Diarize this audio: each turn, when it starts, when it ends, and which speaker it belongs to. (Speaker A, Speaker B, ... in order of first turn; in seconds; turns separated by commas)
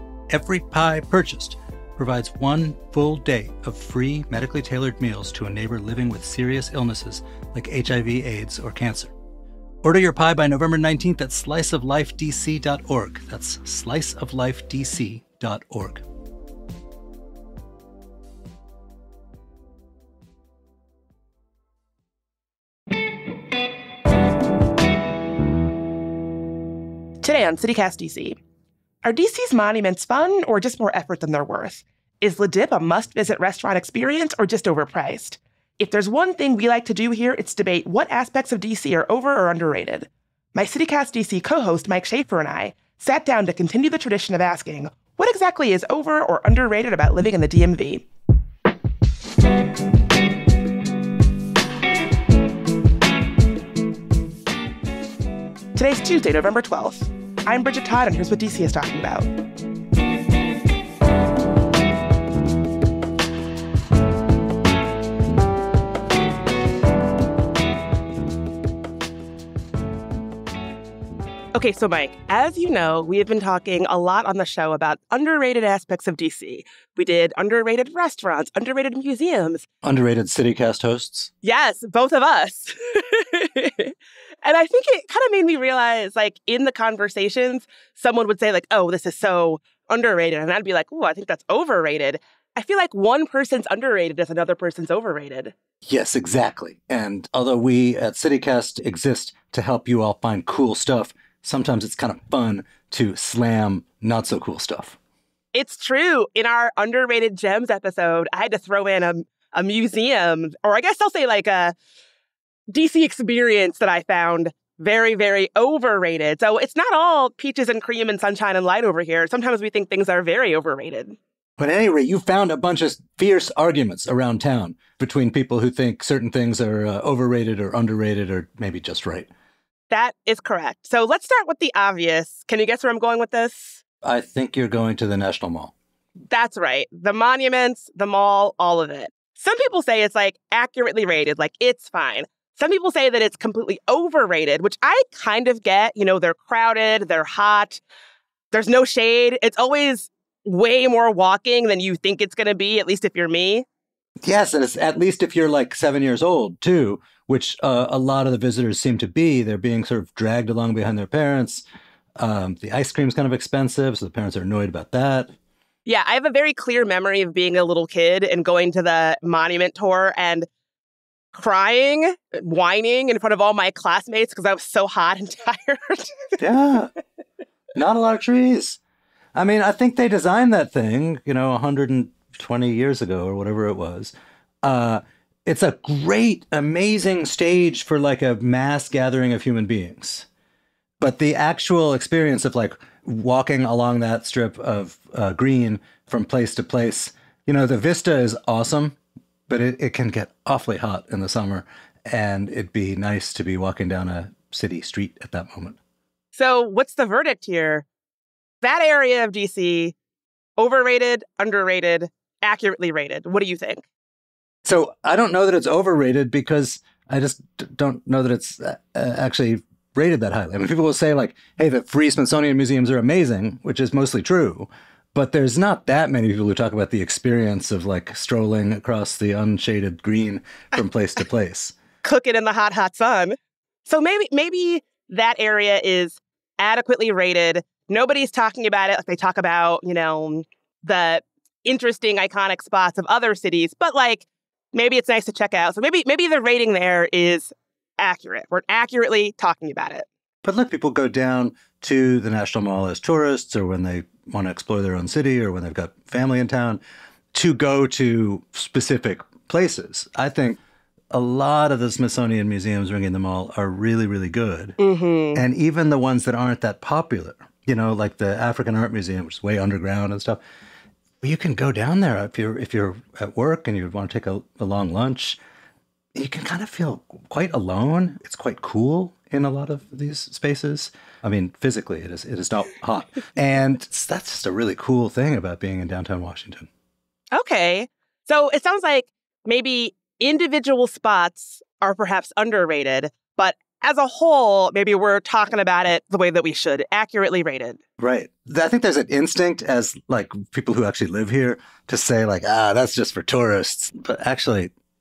Speaker A: 0.3-9.1, Speaker A: 9.8-16.0, Speaker B: 27.2-28.4, Speaker B: 29.0-48.0, Speaker B: 55.7-59.3, Speaker B: 71.5-79.7, Speaker A: 79.8-81.3, Speaker B: 81.4-95.5, Speaker A: 95.8-105.0, Speaker B: 105.5-111.7, Speaker B: 112.7-121.2, Speaker A: 121.6-129.3, Speaker B: 129.9-133.8, Speaker A: 134.0-135.7, Speaker B: 136.3-147.8, Speaker B: 148.5-153.6, Speaker A: 154.2-161.6, Speaker A: 162.2-165.3, Speaker B: 165.8-170.5, Speaker B: 171.3-176.4, Speaker A: 176.4-176.9, Speaker A: 177.7-178.8, Speaker A: 179.3-190.3, Speaker A: 191.0-205.8, Speaker B: 206.3-207.8, Speaker B: 208.6-209.9, Speaker B: 210.6-213.8, Speaker A: 214.6-231.8, Speaker B: 232.0-233.3, Speaker B: 233.8-250.1, Speaker A: 250.4-256.8, Speaker A: 257.3-260.6, Speaker A: 261.1-264.8, Speaker B: 264.8-265.4, Speaker A: 265.3-270.4, Speaker A: 271.2-275.4, Speaker A: 276.1-286.7, Speaker B: 287.3-297.8, Speaker A: 298.0-304.7